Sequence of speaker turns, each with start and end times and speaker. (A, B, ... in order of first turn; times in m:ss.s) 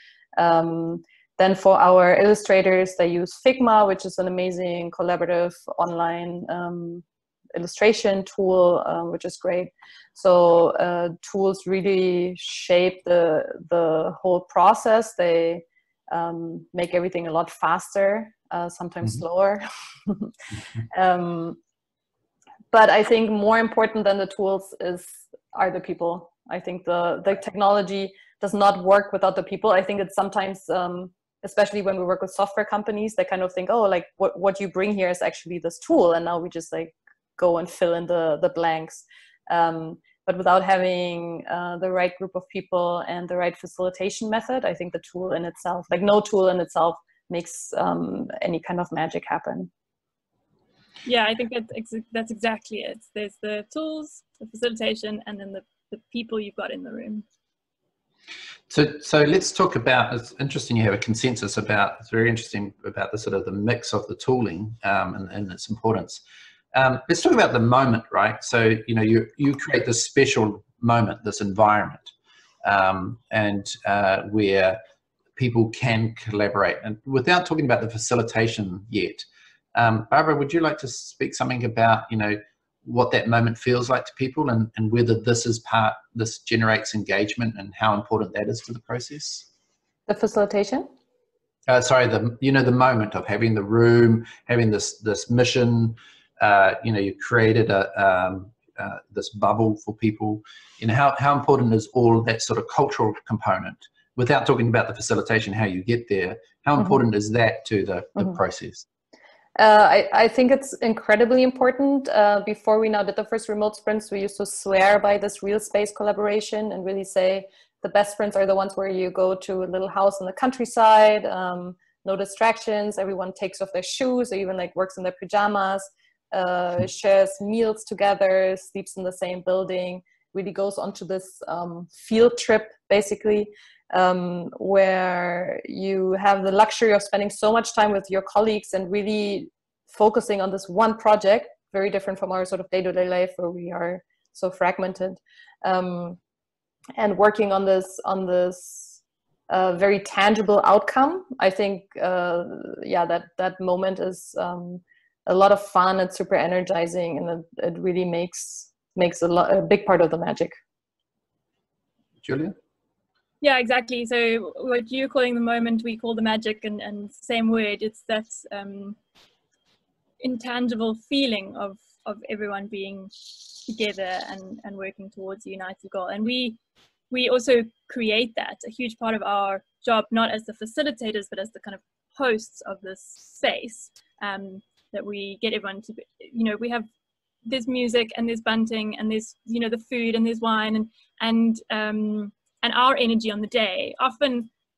0:00.4-0:20.3 A
0:20.9-0:21.6 A
0:22.7-0:49.7 A
0:51.0-0:57.2 B
0:58.7-1:06.2 C
1:06.7-1:12.1 C
1:12.6-1:14.8 C
1:15.4-1:29.5 C
1:30.1-1:30.9 A
1:31.7-1:48.9 C
1:49.6-2:26.2 A
2:27.0-2:40.6 A
2:42.2-2:42.6 C
2:43.4-2:49.0 B
2:50.2-2:56.6 B
2:57.1-3:06.9 B
3:07.5-3:14.5 B